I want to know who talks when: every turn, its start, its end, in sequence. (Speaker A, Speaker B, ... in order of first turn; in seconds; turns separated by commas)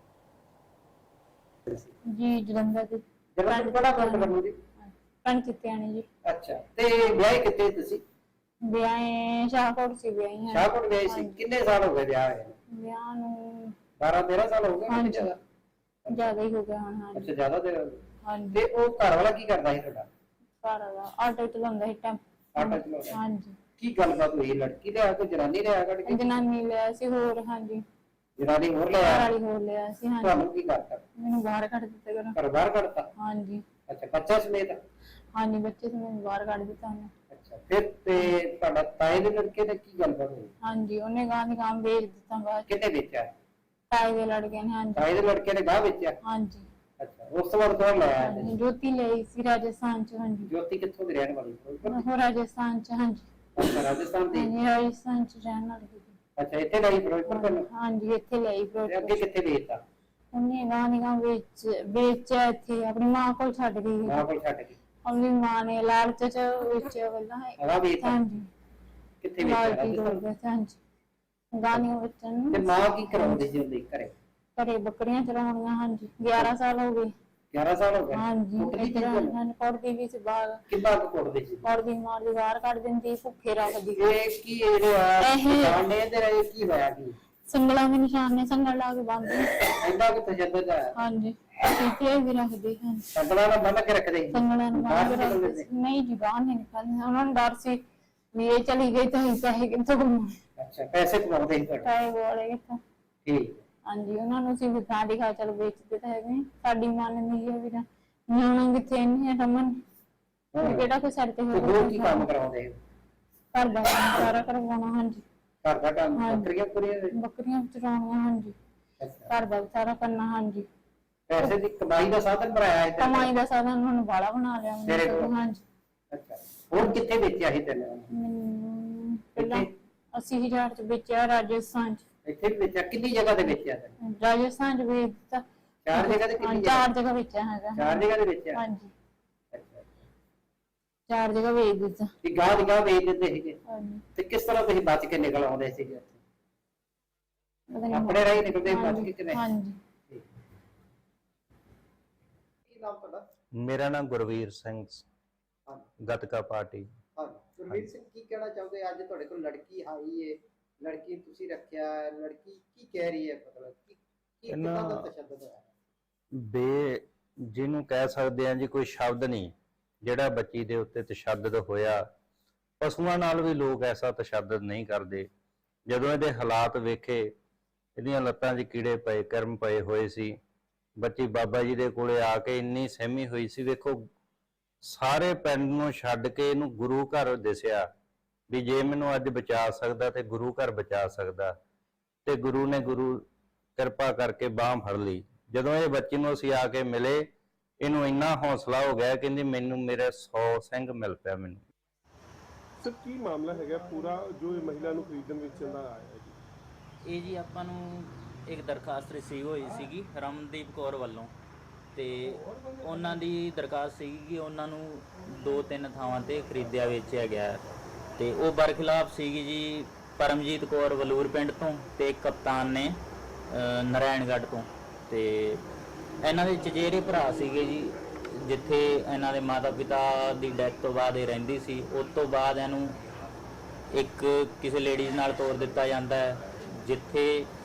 Speaker A: 2.1-6.0, Speaker B: 3.4-4.5, Speaker B: 6.3-8.0, Speaker A: 8.6-11.4, Speaker B: 10.5-12.6, Speaker A: 12.7-13.8, Speaker B: 14.0-15.4, Speaker A: 14.9-15.3, Speaker B: 16.1-16.4, Speaker A: 16.1-17.3, Speaker B: 17.1-20.1, Speaker A: 18.2-18.6, Speaker A: 20.6-23.6, Speaker B: 22.6-23.2, Speaker B: 23.8-26.4, Speaker A: 26.1-27.8, Speaker B: 28.4-29.3, Speaker A: 29.0-30.4, Speaker B: 30.2-31.0, Speaker A: 31.2-32.4, Speaker B: 32.3-33.1, Speaker A: 33.2-33.6, Speaker B: 33.9-34.8, Speaker A: 35.3-37.1, Speaker B: 37.3-40.5, Speaker A: 40.6-42.7, Speaker B: 42.7-43.3, Speaker A: 43.9-45.2, Speaker B: 44.9-46.2, Speaker A: 46.2-46.7, Speaker B: 47.0-48.5, Speaker A: 48.2-50.5, Speaker B: 50.5-52.1, Speaker A: 51.9-53.3, Speaker B: 53.5-54.5, Speaker A: 54.3-56.1, Speaker B: 56.4-57.7, Speaker A: 57.3-59.2, Speaker B: 58.9-59.8, Speaker A: 60.3-64.2, Speaker B: 64.0-64.8, Speaker A: 65.0-68.4, Speaker B: 67.6-68.2, Speaker B: 69.2-70.2, Speaker A: 69.4-70.8, Speaker A: 71.5-73.4, Speaker B: 72.5-74.1, Speaker A: 74.5-77.1, Speaker B: 77.5-79.4, Speaker A: 78.1-80.7, Speaker B: 80.7-81.6, Speaker A: 81.6-84.0, Speaker B: 83.9-87.2, Speaker A: 85.2-85.8, Speaker A: 87.5-89.8, Speaker B: 89.8-90.9, Speaker A: 91.0-93.1, Speaker B: 93.1-95.7, Speaker A: 94.3-97.8, Speaker A: 98.3-100.3, Speaker B: 100.6-101.8, Speaker A: 101.8-102.8, Speaker B: 103.2-103.6, Speaker A: 103.9-109.8, Speaker B: 110.5-110.9, Speaker A: 110.6-112.3, Speaker B: 111.5-112.8, Speaker A: 113.5-115.2, Speaker B: 115.6-117.1, Speaker A: 116.1-116.5, Speaker A: 117.1-118.5, Speaker B: 119.0-119.3, Speaker A: 119.3-120.7, Speaker B: 121.3-123.3, Speaker A: 123.0-125.6, Speaker B: 124.8-125.3, Speaker B: 126.1-128.1, Speaker A: 128.1-132.0, Speaker B: 129.4-129.7, Speaker B: 132.2-133.9, Speaker A: 134.0-138.9, Speaker B: 135.8-136.9, Speaker B: 137.8-138.6, Speaker B: 139.5-140.0, Speaker A: 141.1-142.1, Speaker B: 142.2-143.6, Speaker A: 143.7-144.0, Speaker B: 144.2-146.2, Speaker A: 147.7-149.8, Speaker B: 147.9-149.4, Speaker B: 152.7-153.2, Speaker C: 153.6-155.0, Speaker C: 156.0-156.9, Speaker B: 157.2-165.7, Speaker C: 164.5-165.1, Speaker C: 166.4-172.0, Speaker C: 172.8-175.3, Speaker C: 175.9-177.3, Speaker C: 178.0-180.3, Speaker C: 181.0-184.0, Speaker C: 184.8-187.9, Speaker C: 188.5-191.5, Speaker C: 192.2-193.2, Speaker C: 193.8-197.2, Speaker C: 197.8-201.6, Speaker D: 202.8-206.4, Speaker E: 207.0-211.3, Speaker E: 211.9-217.6, Speaker E: 218.2-223.0, Speaker E: 223.5-225.6, Speaker E: 226.2-233.0, Speaker E: 233.9-237.5